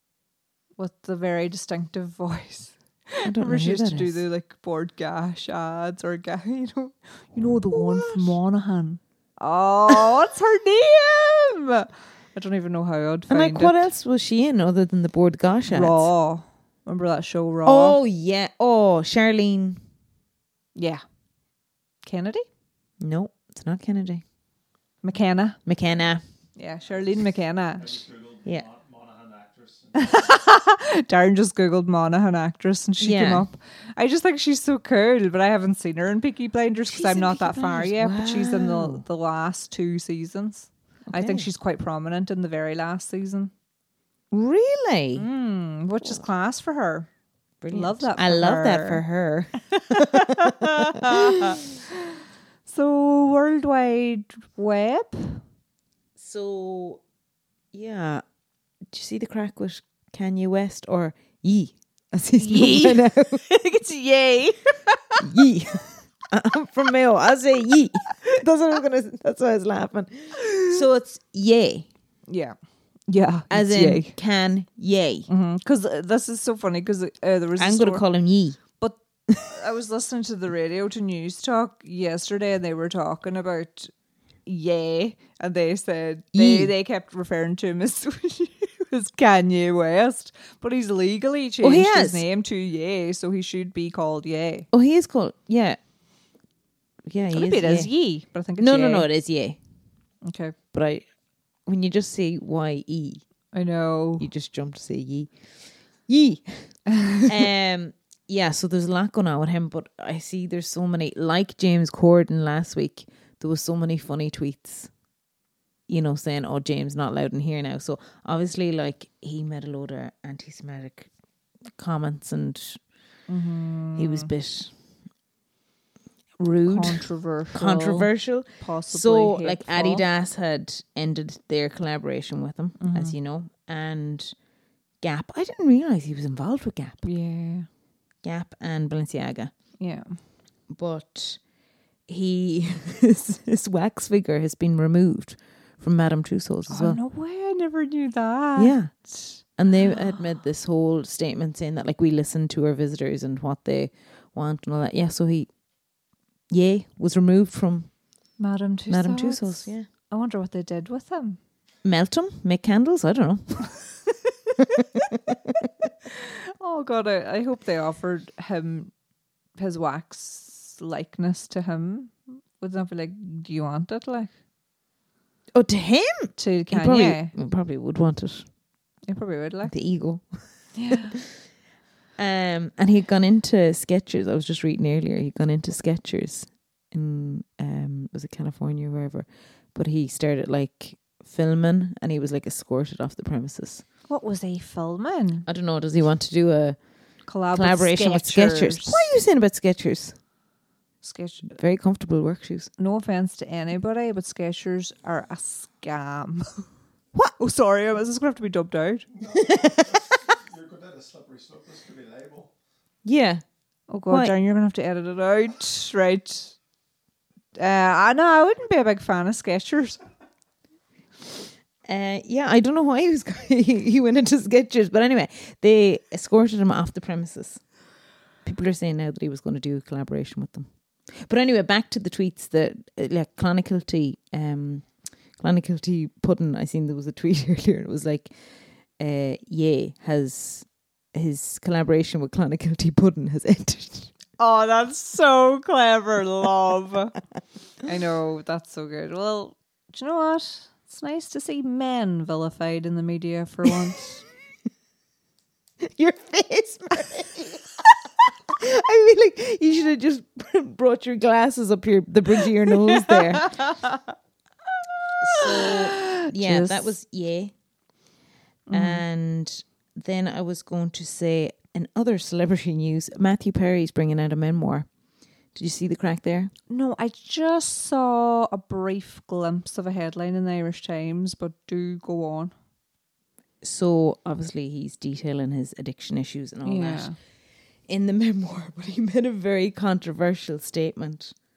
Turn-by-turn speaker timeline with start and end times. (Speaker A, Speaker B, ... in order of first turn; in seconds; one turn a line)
Speaker A: 0.8-13.9
Speaker B: 3.2-4.2
Speaker B: 7.7-8.4
Speaker B: 13.3-16.1
Speaker A: 15.7-18.0
Speaker B: 17.7-19.8
Speaker A: 20.8-21.0
Speaker A: 22.0-22.5
Speaker B: 23.0-24.2
Speaker A: 25.0-25.6
Speaker B: 25.7-26.2
Speaker A: 26.6-28.0
Speaker C: 27.8-30.3
Speaker A: 30.0-43.5
Speaker B: 33.0-33.5
Speaker B: 36.9-39.0
Speaker B: 41.1-41.5
Speaker B: 44.3-45.3
Speaker A: 45.1-47.1
Speaker B: 47.6-51.6
Speaker A: 47.7-49.0
Speaker A: 49.7-51.8
Speaker A: 52.7-55.4
Speaker B: 56.2-57.0
Speaker B: 57.7-58.2
Speaker B: 58.9-63.4
Speaker A: 62.4-65.2
Speaker B: 65.2-71.9
Speaker A: 72.3-72.6
Speaker A: 73.1-74.1
Speaker B: 73.5-75.3
Speaker A: 75.3-78.0
Speaker B: 77.6-78.6
Speaker A: 78.8-83.9
Speaker A: 84.5-94.7
Speaker B: 86.3-86.7
Speaker B: 91.6-92.2
Speaker B: 94.7-95.8
Speaker B: 97.0-97.9
Speaker A: 97.3-99.1
Speaker B: 98.6-99.6
Speaker A: 100.2-100.5
Speaker B: 100.7-101.1
Speaker B: 101.7-103.2
Speaker A: 103.5-104.3
Speaker B: 104.2-105.3
Speaker B: 106.1-114.9
Speaker A: 107.0-107.3
Speaker B: 115.9-121.1
Speaker B: 121.8-122.8
Speaker A: 123.3-124.3
Speaker B: 124.0-124.7
Speaker A: 126.4-130.0
Speaker B: 126.6-134.3
Speaker A: 132.8-133.2
Speaker B: 135.0-137.1
Speaker A: 137.0-137.7
Speaker B: 138.2-139.5
Speaker A: 139.8-140.2
Speaker B: 140.7-141.4
Speaker B: 142.1-147.0
Speaker A: 146.7-150.1
Speaker B: 148.6-155.5
Speaker B: 156.5-157.9
Speaker A: 158.4-161.4
Speaker B: 158.9-159.9
Speaker B: 161.8-163.7
Speaker B: 164.6-165.5
Speaker A: 166.1-168.9
Speaker A: 169.6-174.3
Speaker B: 175.6-178.5
Speaker A: 176.4-177.3
Speaker A: 179.1-179.8
Speaker B: 179.7-181.0
Speaker A: 180.8-181.2
Speaker B: 182.2-193.8
Speaker A: 194.1-195.5
Speaker B: 195.5-196.8
Speaker A: 197.3-199.1
Speaker B: 197.5-200.2
Speaker A: 201.0-201.6
Speaker B: 201.6-202.7
Speaker A: 202.8-206.7
Speaker A: 207.2-209.1
Speaker C: 209.2-212.5
Speaker B: 209.4-210.0
Speaker B: 213.1-213.4
Speaker A: 213.9-216.6
Speaker B: 214.1-214.3
Speaker A: 217.6-220.0
Speaker B: 221.8-227.6
Speaker B: 228.4-238.3
Speaker B: 239.0-244.1
Speaker A: 244.4-247.2
Speaker A: 247.8-254.2
Speaker B: 255.8-257.9
Speaker B: 258.5-263.8
Speaker A: 262.7-264.0
Speaker B: 265.2-267.5
Speaker A: 265.3-266.9
Speaker A: 268.7-269.0
Speaker B: 268.7-274.9
Speaker B: 275.6-276.5
Speaker A: 276.7-282.5
Speaker B: 283.6-287.1
Speaker A: 286.6-287.2
Speaker B: 287.9-291.4